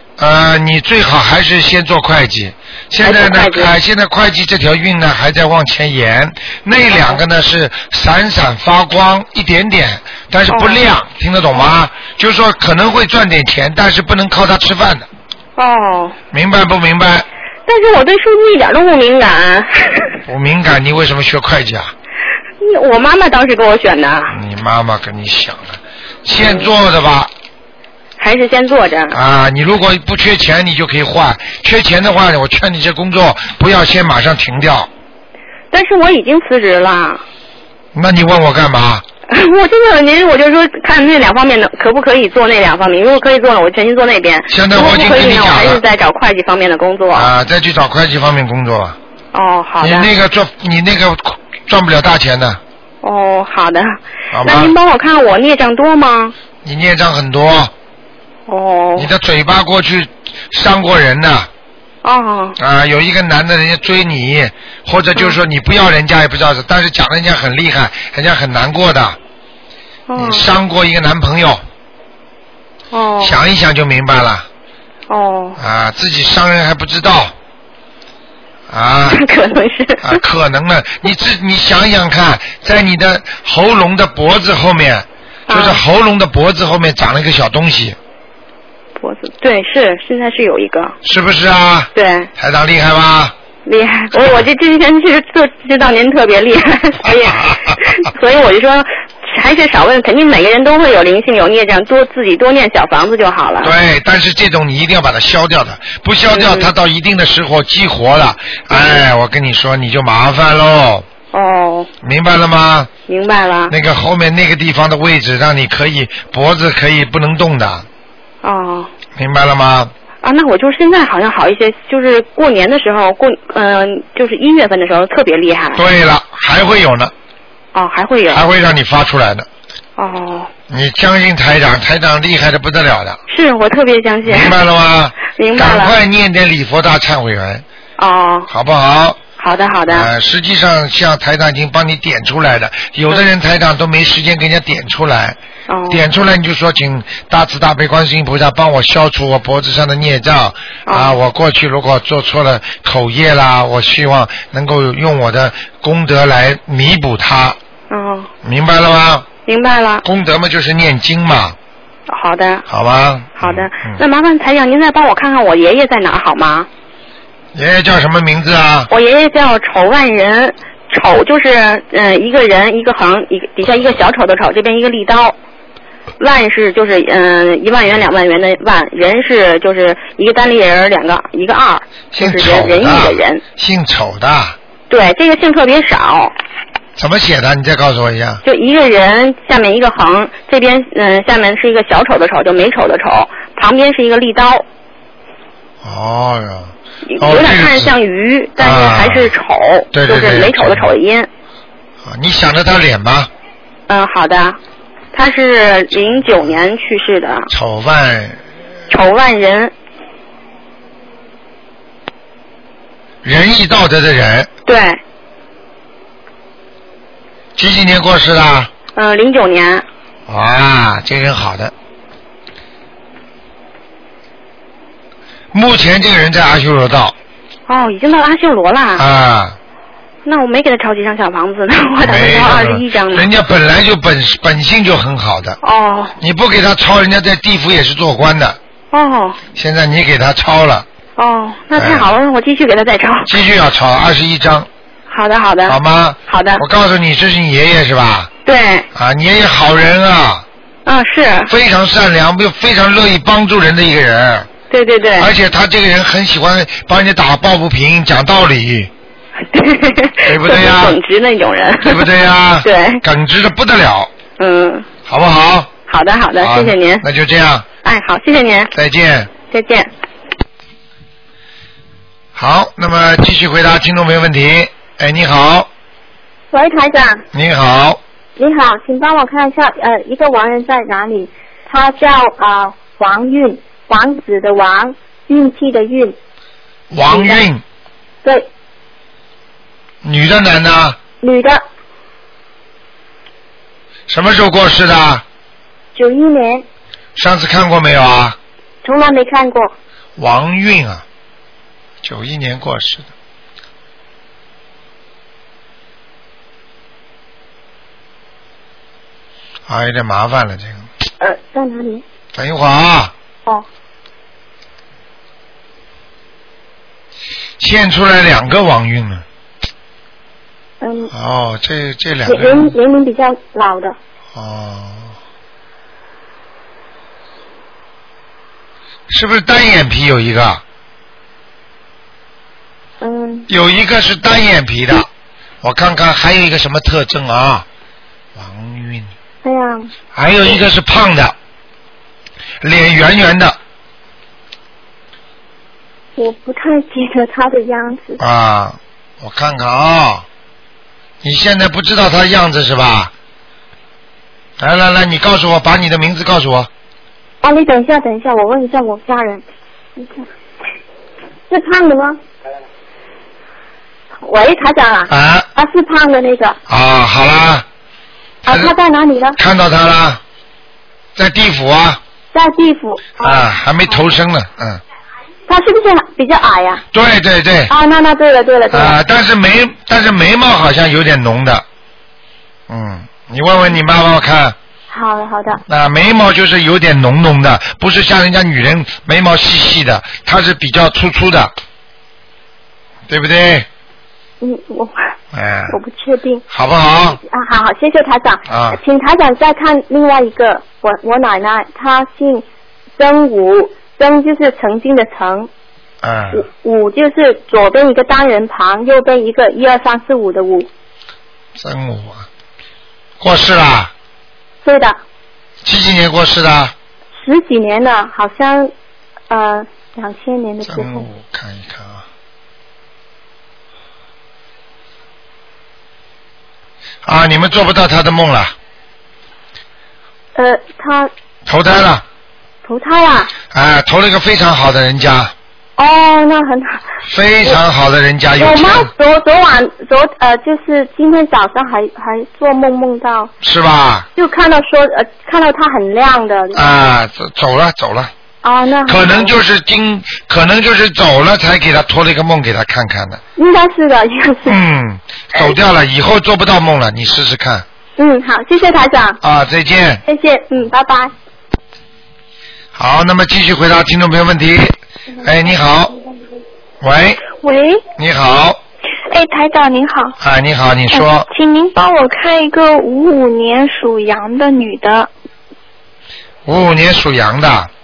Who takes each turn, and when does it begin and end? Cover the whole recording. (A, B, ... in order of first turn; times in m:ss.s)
0:00.2-0:15.1 A
0:03.0-0:03.7 B
0:10.5-0:10.8 B
0:15.6-0:16.2 B
0:16.3-0:17.2 A
0:17.7-0:20.2 B
0:20.2-0:21.9 A
0:22.6-0:24.4 B
0:24.3-0:27.3 A
0:26.3-0:26.7 B
0:28.2-0:29.2 B
0:29.1-0:34.9 A
0:35.7-0:37.2 B
0:37.9-0:39.0 A
0:39.3-0:47.3 B
0:44.5-0:45.8 A
0:47.1-0:49.0 A
0:49.3-0:50.1 B
0:49.8-0:52.6 A
0:53.0-0:56.3 B
0:54.3-0:54.7 A
0:56.6-0:57.7 A
0:58.5-0:59.1 B
0:59.0-1:01.5 A
1:02.0-1:02.6 B
1:02.6-1:09.2 A
1:10.1-1:10.5 B
1:10.1-1:11.6 A
1:12.9-1:13.4 B
1:13.2-1:14.5 A
1:15.1-1:15.6 B
1:15.6-1:17.3 A
1:18.7-1:19.2 A
1:19.1-1:20.2 B
1:20.0-1:28.0 A
1:25.5-1:25.8 B
1:29.0-1:31.0 B
1:31.0-1:33.3 A
1:31.9-1:32.3 B
1:33.6-1:43.7 B
1:37.1-1:37.8 A
1:43.6-1:51.0 A
1:46.3-1:46.7 B
1:48.7-1:49.0 B
1:51.3-1:51.9 B
1:52.0-1:52.9 A
1:53.1-1:53.7 B
1:53.7-1:57.8 A
1:58.4-1:58.9 B
1:59.2-1:59.9 A
2:00.2-2:05.8 B
2:05.7-2:07.1 A
2:07.7-2:08.4 B
2:08.3-2:09.5 A
2:10.0-2:10.5 B
2:10.7-2:13.2 A
2:13.3-2:14.6 B
2:14.2-2:17.6 A
2:15.2-2:15.9 B
2:18.0-2:18.5 B
2:18.5-2:19.2 A
2:19.4-2:20.1 B
2:19.9-2:25.4 A
2:25.7-2:26.0 B
2:25.9-2:37.6 A
2:30.8-2:31.2 B
2:37.9-2:38.3 B
2:38.4-2:39.3 A
2:39.4-2:40.0 B
2:40.0-2:41.6 A
2:42.1-2:42.6 B
2:42.7-2:44.0 A
2:43.4-2:46.7 B
2:47.5-2:48.9 A
2:48.9-2:55.3 B
2:56.2-3:03.4 B
3:02.1-3:04.6 A
3:04.9-3:06.3 B
3:07.0-3:08.4 A
3:08.4-3:14.6 B
3:15.8-3:17.9 A
3:17.1-3:21.3 B
3:18.6-3:19.3 A
3:19.9-3:20.9 A
3:22.0-3:23.3 A
3:23.9-3:24.6 B
3:25.1-3:27.5 B
3:27.5-3:28.4 A
3:28.9-3:29.7 B
3:33.2-3:34.5 A
3:34.6-3:35.0 B
3:37.6-3:38.7 A
3:38.9-3:39.8 B
3:40.3-3:41.7 A
3:45.5-3:47.1 A
3:47.7-3:49.0 B
3:49.0-3:49.6 A
3:50.2-3:53.3 B
3:52.0-3:55.6 A
3:55.6-3:56.2 B
3:56.2-3:58.6 A
3:58.9-3:59.4 B
3:59.5-4:00.8 A
4:01.2-4:03.3 B
4:01.7-4:02.1 A
4:03.2-4:04.7 A
4:05.1-4:06.6 B
4:05.6-4:08.3 A
4:08.4-4:08.9 B
4:08.9-4:10.4 A
4:10.8-4:11.5 B
4:11.5-4:14.5 A
4:14.7-4:15.3 B
4:15.2-4:18.9 A
4:19.5-4:22.1 B
4:20.2-4:21.0 A
4:21.8-4:24.1 A
4:22.6-4:23.0 B
4:24.4-4:24.9 B
4:25.0-4:25.7 A
4:25.9-4:27.0 B
4:26.4-4:27.7 A
4:27.8-4:28.7 B
4:28.7-4:29.3 A
4:29.5-4:29.9 B
4:32.3-4:35.7 A
4:36.5-4:37.2 C
4:37.3-4:38.0 A
4:38.4-4:46.2 C
4:46.9-4:47.6 A
4:47.1-4:47.4 C
4:50.0-4:51.0 A
4:51.2-4:51.6 C
4:54.1-4:55.2 A
4:55.9-4:56.6 C
4:57.1-4:58.4 A
4:58.8-4:59.7 C
5:00.2-5:01.0 A
5:02.0-5:03.1 A
5:09.7-5:10.9 A
5:11.2-5:12.0 C
5:12.3-5:13.1 A
5:17.6-5:19.2 A
5:20.8-5:21.1 C
5:21.1-5:22.7 A
5:22.2-5:24.0 C
5:24.3-5:25.1 A
5:29.1-5:30.6 A
5:33.0-5:33.5 C
5:33.5-5:35.1 A
5:35.6-5:37.6 A
5:38.4-5:39.1 A
5:39.4-5:39.9 C
5:40.1-5:41.3 A
5:42.6-5:43.6 A
5:46.2-5:48.2 C
5:48.2-5:50.2 A
5:51.2-5:53.1 A
5:54.6-5:56.7 A
5:57.4-5:59.4 C
6:00.0-6:00.2 C
6:01.5-6:02.2 C
6:04.2-6:06.6 C
6:05.1-6:05.5 A
6:06.7-6:07.6 A
6:08.4-6:08.7 A
6:08.4-6:09.4 C
6:09.4-6:10.2 A
6:11.2-6:12.0 A
6:12.3-6:14.1 C
6:13.2-6:14.8 A
6:15.5-6:16.8 C
6:16.9-6:17.7 A
6:17.7-6:19.0 C
6:18.7-6:21.6 A
6:22.7-6:24.6 A
6:24.9-6:25.6 C
6:25.7-6:31.5 A
6:33.1-6:33.7 A
6:34.4-6:35.1 C
6:35.3-6:35.8 A
6:35.7-6:36.4 C
6:36.5-6:37.2 A
6:37.2-6:42.4 C
6:38.5-6:38.8 A
6:43.0-6:45.5 C
6:46.0-6:46.4 A
6:46.3-6:50.7 C
6:51.6-6:52.3 A
6:53.2-6:53.9 A
6:54.6-6:55.0 C
6:55.6-6:56.7 A
6:57.1-6:58.7 C
6:59.3-7:01.0 C
7:00.6-7:02.0 A
7:07.0-7:08.5 A
7:10.3-7:11.1 C
7:11.4-7:12.0 A
7:12.6-7:13.3 C
7:13.5-7:15.3 A
7:15.8-7:16.9 C
7:17.0-7:18.9 A
7:18.4-7:23.3 C
7:23.4-7:24.0 A
7:24.2-7:26.7 C
7:26.5-7:28.1 A
7:28.4-7:29.4 C
7:28.8-7:33.2 A
7:33.4-7:34.6 C
7:34.4-7:37.6 A
7:38.0-7:39.2 C
7:39.2-7:40.0 A
7:40.0-7:41.1 C
7:42.7-7:45.9 A
7:46.8-7:47.2 A
7:47.4-7:47.8 D
7:48.0-7:48.6 A
7:49.1-7:50.2 D
7:50.2-7:51.2 A
7:50.9-7:55.1 D
7:56.4-7:57.7 A